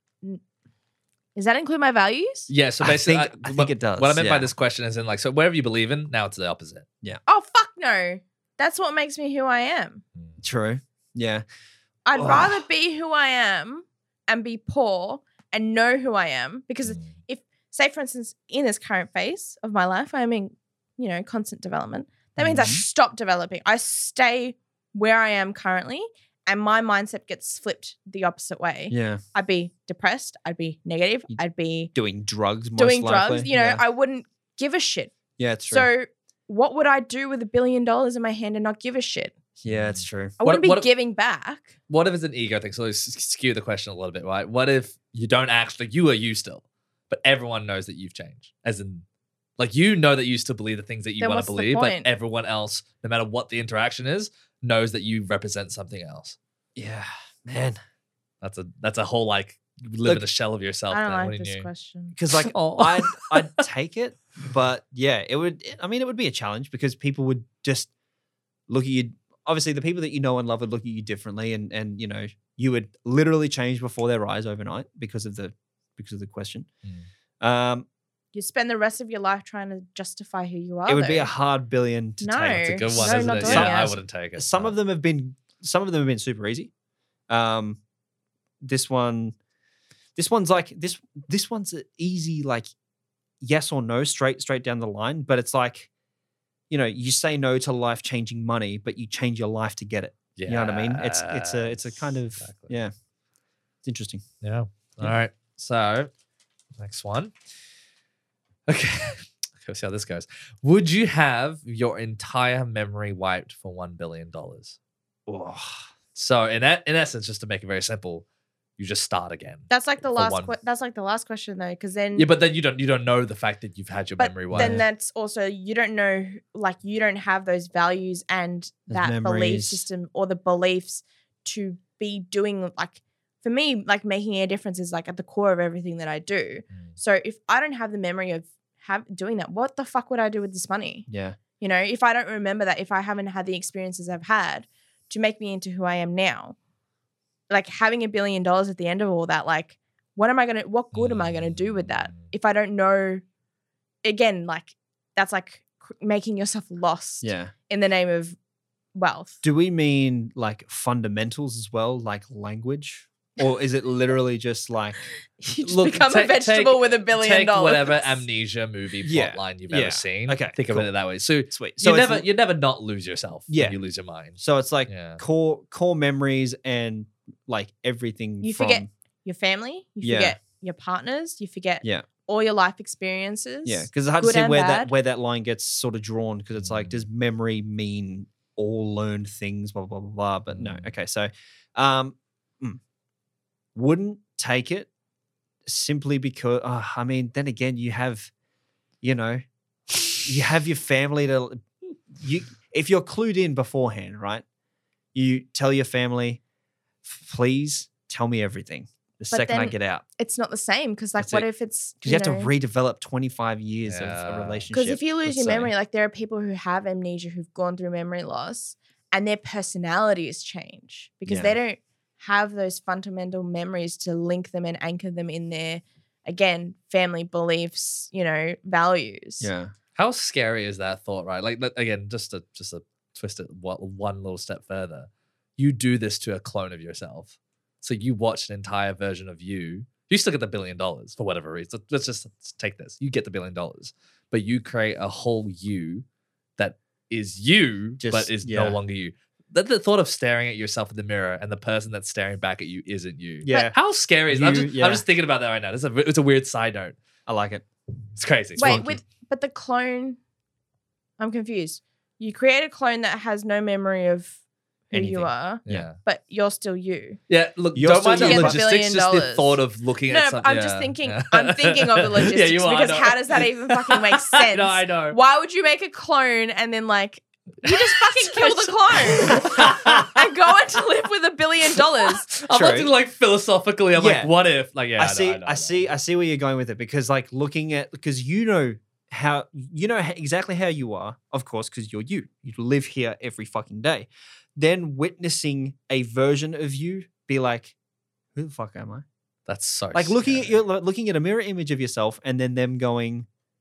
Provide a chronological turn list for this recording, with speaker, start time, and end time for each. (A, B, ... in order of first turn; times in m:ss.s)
0:01.4-0:02.5 A
0:02.5-0:06.9 B
0:02.8-0:04.5 C
0:07.3-0:10.0 A
0:10.4-0:11.4 C
0:12.1-0:31.9 A
0:12.2-0:12.6 C
0:16.8-0:17.1 B
0:22.4-0:22.8 C
0:28.9-0:29.2 C
0:32.0-0:33.8 C
0:32.8-0:35.1 A
0:35.4-0:35.9 C
0:35.7-0:39.4 A
0:39.6-0:40.4 C
0:39.7-0:40.9 B
0:40.4-0:41.7 A
0:41.9-0:49.0 B
0:49.6-0:56.4 B
0:51.2-0:52.1 A
0:56.8-0:57.8 C
0:58.4-1:01.7 B
1:00.9-1:02.2 A
1:02.2-1:07.9 C
1:02.4-1:03.6 B
1:08.7-1:16.7 C
1:17.4-1:17.9 C
1:18.3-1:21.3 A
1:20.9-1:26.7 C
1:22.2-1:24.0 A
1:22.7-1:24.7 B
1:27.3-1:27.8 C
1:28.6-1:29.4 C
1:30.2-1:32.7 C
1:33.4-1:35.9 C
1:36.7-1:42.9 C
1:40.4-1:42.7 B
1:43.8-1:44.2 C
1:44.4-1:46.1 B
1:46.8-1:47.3 B
1:48.7-1:54.8 B
1:55.3-1:55.8 C
1:56.2-1:58.2 B
1:58.8-2:00.5 B
1:59.7-2:02.3 A
2:02.2-2:04.8 B
2:04.2-2:21.1 A
2:04.5-2:04.8 C
2:08.9-2:09.9 C
2:21.1-2:21.4 C
2:21.6-2:26.6 A
2:27.5-2:33.2 A
2:30.9-2:32.2 B
2:34.0-2:38.4 A
2:37.2-2:37.5 C
2:39.0-2:39.4 A
2:39.4-2:45.0 C
2:45.4-2:48.2 A
2:45.6-2:55.2 B
2:49.0-2:50.9 C
2:51.5-2:52.3 C
2:53.5-2:53.8 C
2:54.4-2:58.9 C
2:58.4-3:04.9 A
3:00.0-3:00.4 C
3:03.6-3:12.8 C
3:06.6-3:07.0 B
3:10.5-3:10.8 B
3:13.8-3:14.9 C
3:15.7-3:18.3 C
3:19.0-3:19.4 C
3:20.1-3:24.4 C
3:25.1-3:26.4 C
3:27.0-3:30.0 C
3:29.3-3:32.5 A
3:31.2-3:31.5 C
3:32.0-3:35.7 C
3:33.9-3:34.7 B
3:34.7-3:49.5 A
3:41.3-3:41.6 C
3:49.4-3:49.7 C
3:50.0-4:06.0 B
4:06.6-4:17.0 B
4:08.0-4:08.8 C
4:13.4-4:13.7 C
4:14.3-4:15.0 C
4:17.3-4:17.6 C
4:18.2-4:19.0 B
4:18.6-4:20.2 A
4:18.6-4:18.9 C
4:21.2-4:24.4 A
4:24.9-4:25.9 C
4:24.9-4:27.2 A
4:25.7-4:26.0 B
4:27.3-4:35.2 B
4:27.8-4:28.6 C
4:28.2-4:42.3 A
4:37.7-4:40.2 B
4:39.1-4:39.6 C
4:42.3-4:45.9 B
4:42.5-4:42.9 C
4:44.0-4:44.3 C
4:45.0-4:57.8 C
4:58.4-4:59.0 C
4:59.5-5:00.6 B
4:59.9-5:03.3 C